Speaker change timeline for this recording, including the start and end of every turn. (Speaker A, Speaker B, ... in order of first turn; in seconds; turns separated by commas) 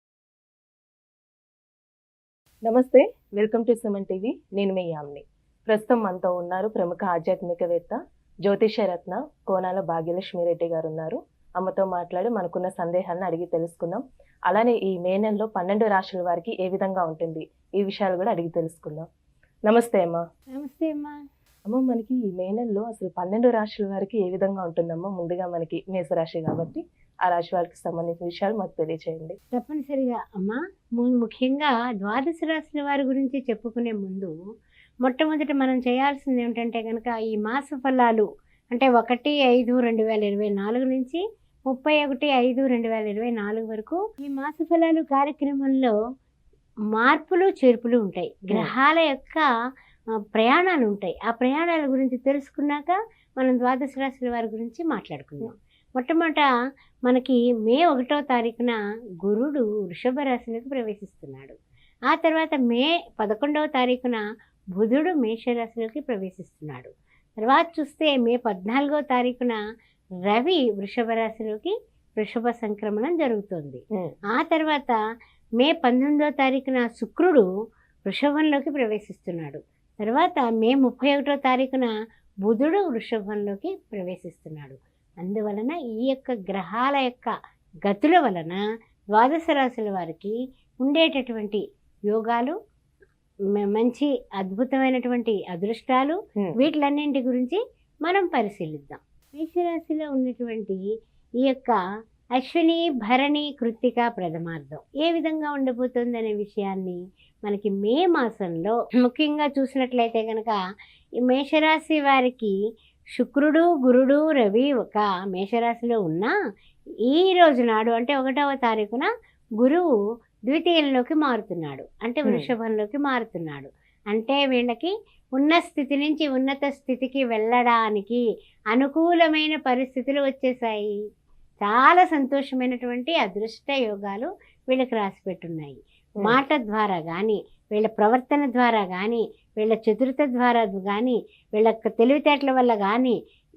Speaker A: 2.6-19.1, Speaker A: 19.6-20.2, Speaker B: 20.5-21.1, Speaker A: 21.6-29.4, Speaker B: 29.5-34.3, Speaker B: 35.0-45.9, Speaker B: 46.9-49.4, Speaker B: 50.3-56.5, Speaker B: 57.1-61.5, Speaker B: 62.1-64.2, Speaker B: 64.8-66.9, Speaker B: 67.4-69.6, Speaker B: 70.3-73.8, Speaker B: 74.3-75.0, Speaker B: 75.6-77.4, Speaker B: 78.0-81.9, Speaker B: 82.5-87.3, Speaker B: 87.9-88.6, Speaker B: 89.1-92.5, Speaker B: 93.6-100.8, Speaker B: 101.4-101.8, Speaker B: 102.4-110.6, Speaker B: 111.2-112.5, Speaker B: 113.2-116.3, Speaker B: 117.1-119.1, Speaker B: 119.6-119.9, Speaker B: 120.5-130.9, Speaker A: 122.2-122.5, Speaker B: 131.6-143.2